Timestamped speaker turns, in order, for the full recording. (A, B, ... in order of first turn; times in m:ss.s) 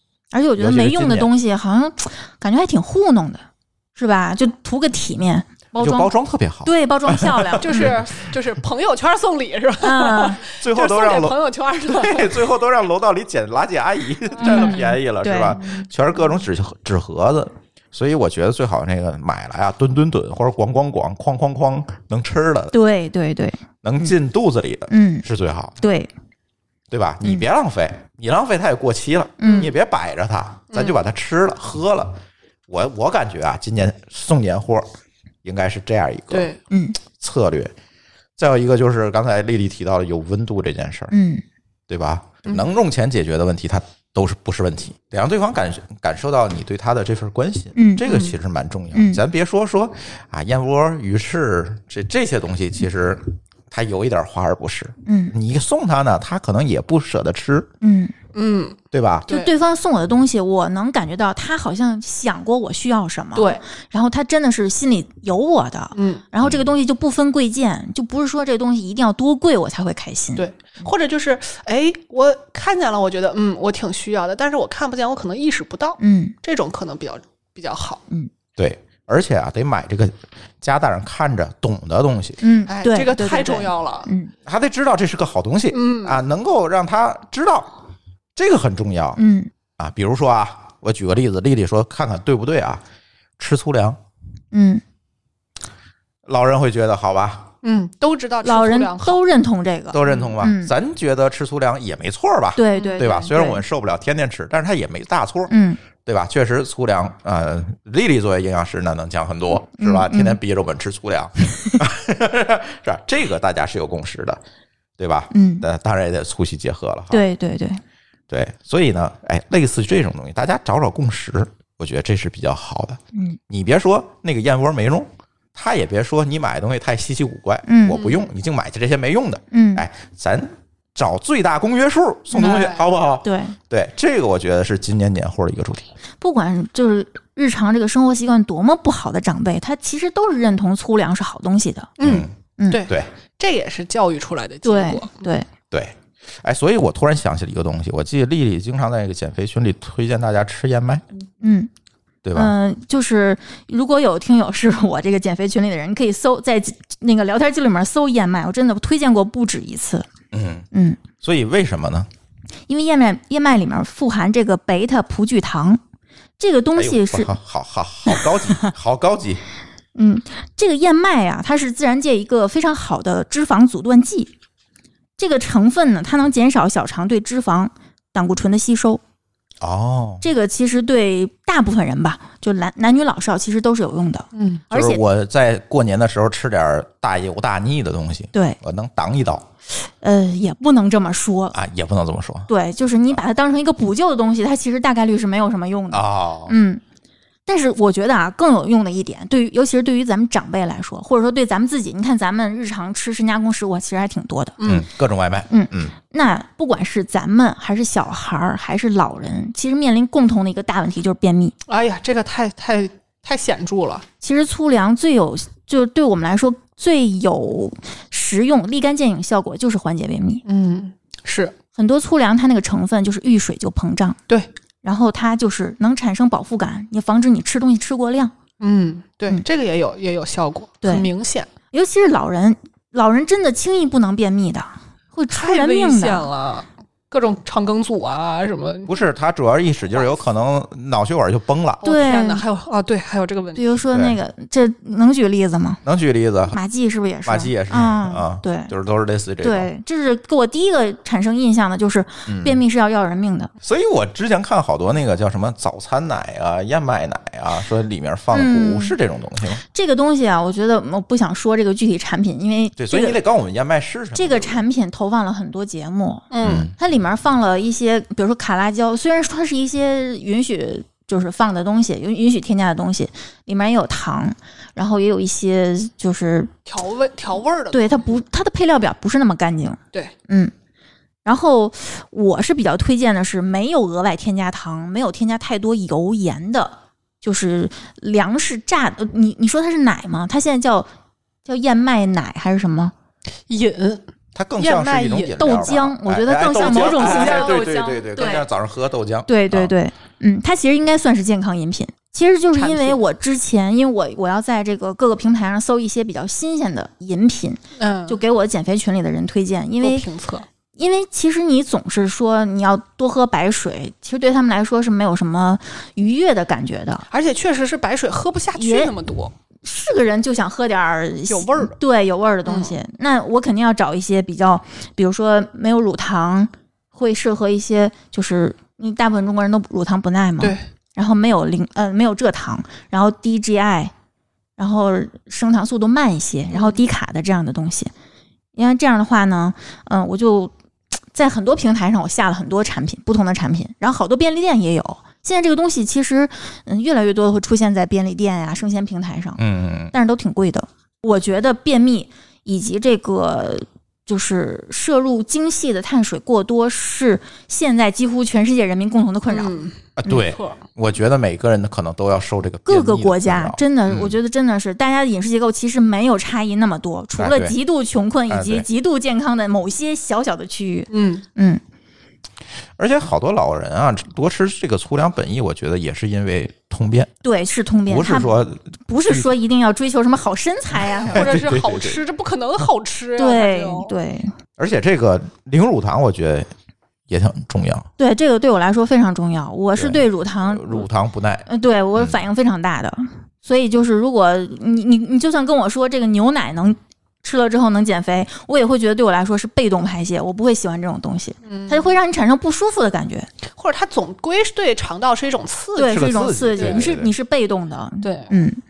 0:00.3-0:03.4 A
0:00.6-0:01.3 B
0:04.0-0:06.1 A
0:05.8-0:08.3 B
0:06.6-0:08.0 A
0:07.6-0:12.5 C
0:09.8-0:10.4 A
0:10.5-0:22.7 B
0:14.4-0:14.9 C
0:14.4-0:15.8 A
0:22.7-0:24.1 A
0:23.8-0:25.8 B
0:24.9-0:25.3 A
0:25.8-0:26.1 A
0:26.9-0:34.9 B
0:29.4-0:29.7 C
0:29.4-0:29.7 A
0:30.7-0:31.0 C
0:35.4-0:36.5 B
0:36.3-0:36.6 C
0:36.7-0:37.0 A
0:37.1-0:37.7 B
0:38.4-0:41.1 B
0:41.1-0:41.4 A
0:41.9-0:57.7 B
0:47.8-0:48.0 A
0:48.1-0:48.3 C
0:48.9-0:49.2 A
0:55.1-0:55.3 A
0:57.8-0:58.2 A
0:58.3-0:59.5 C
0:58.9-0:59.3 B
0:59.3-1:10.5 A
1:03.4-1:03.6 C
1:06.0-1:06.2 C
1:06.4-1:06.7 B
1:10.4-1:18.0 C
1:16.0-1:16.4 A
1:18.6-1:22.4 B
1:22.4-1:24.3 A
1:22.7-1:24.1 C
1:24.5-1:27.8 B
1:25.7-1:26.2 C
1:28.4-1:29.2 B
1:29.2-1:29.5 A
1:29.8-1:32.8 B
1:33.4-1:34.0 B
1:34.5-1:34.8 A
1:36.3-1:37.5 B
1:37.6-1:39.2 C
1:38.4-1:40.7 A
1:39.9-1:45.5 B
1:42.6-1:43.6 A
1:42.7-1:43.1 C
1:45.5-1:45.8 A
1:46.0-1:54.4 B
1:49.8-1:50.4 A
1:55.0-1:57.2 B
1:55.3-1:55.6 A
1:57.1-1:57.8 A
1:58.3-2:15.9 B
2:03.1-2:03.4 A
2:07.7-2:08.0 A
2:07.9-2:08.2 C
2:09.5-2:09.8 A
2:12.4-2:12.9 C
2:13.2-2:13.6 A
2:16.2-2:22.0 A
2:22.0-2:25.3 C
2:22.0-2:22.3 B
2:22.6-2:22.8 A
2:24.6-2:25.5 A
2:25.7-2:31.0 B
2:31.4-2:31.7 A
2:32.2-2:32.5 B
2:32.4-2:40.1 A
2:40.3-2:40.7 B
2:40.7-2:41.0 A
2:41.2-2:42.1 B
2:42.7-2:45.8 A
2:46.4-2:47.3 A
2:46.8-2:49.4 B
2:50.0-2:54.3 A
2:55.2-2:59.0 A
2:59.6-3:00.2 B
3:00.2-3:05.0 A
3:04.3-3:04.6 C
3:04.7-3:09.5 B
3:08.3-3:08.6 A
3:09.8-3:11.6 A
3:11.5-3:12.5 B
3:12.5-3:16.8 A
3:15.9-3:16.6 B
3:17.5-3:24.6 A
3:24.6-3:25.9 B
3:25.5-3:31.6 A
3:31.7-3:34.1 C
3:34.2-3:40.4 A
3:40.5-3:41.5 C
3:41.8-3:44.2 A
3:44.8-3:48.3 A
3:48.6-3:51.5 C
3:50.8-3:51.1 A
3:51.7-3:56.3 A
3:55.3-3:59.0 C
3:58.9-4:01.8 B
4:01.8-4:03.8 C
4:01.8-4:02.4 A
4:03.6-4:05.8 A
4:03.9-4:04.2 B
4:05.8-4:06.6 B
4:06.5-4:08.7 A
4:07.2-4:09.7 B
4:09.4-4:13.5 A
4:12.3-4:12.6 B
4:13.6-4:19.6 B
4:18.3-4:19.0 A
4:19.7-4:23.2 A
4:22.8-4:24.6 B
4:24.2-4:36.5 A
4:26.3-4:26.7 C
4:26.4-4:26.8 B
4:36.7-4:38.1 C
4:37.7-4:40.5 A
4:41.2-4:50.9 A
4:51.4-4:52.9 A
4:53.5-4:54.0 C
4:54.4-4:59.7 B
4:54.6-4:55.8 C
4:55.4-4:58.4 A
4:56.5-4:58.4 C
4:59.3-5:10.0 A
5:02.6-5:03.0 C
5:07.8-5:08.2 C
5:09.8-5:10.5 C
5:10.8-5:17.1 A
5:17.1-5:19.3 C
5:18.6-5:18.9 A
5:19.6-5:33.9 A
5:21.3-5:21.8 C
5:22.4-5:22.8 C
5:34.6-5:37.9 A
5:36.5-5:36.8 C
5:38.6-5:40.5 A
5:41.1-5:49.4 A
5:49.4-5:49.9 B
5:49.9-5:59.6 A
5:59.3-6:00.6 C
6:00.0-6:04.2 B
6:02.7-6:11.6 A
6:07.2-6:07.6 B
6:08.3-6:08.6 B
6:10.9-6:11.2 C
6:12.8-6:17.1 B
6:17.2-6:21.3 A
6:17.9-6:19.3 B
6:21.1-6:22.0 B
6:21.1-6:23.9 C
6:23.2-6:24.3 A
6:24.6-6:26.5 B
6:27.1-6:27.9 B
6:28.0-6:30.9 A
6:29.8-6:31.5 B
6:31.5-6:43.3 A
6:41.5-6:41.9 C
6:43.6-6:46.9 C
6:45.8-6:48.6 A
6:45.9-6:47.1 B
6:48.0-6:48.3 C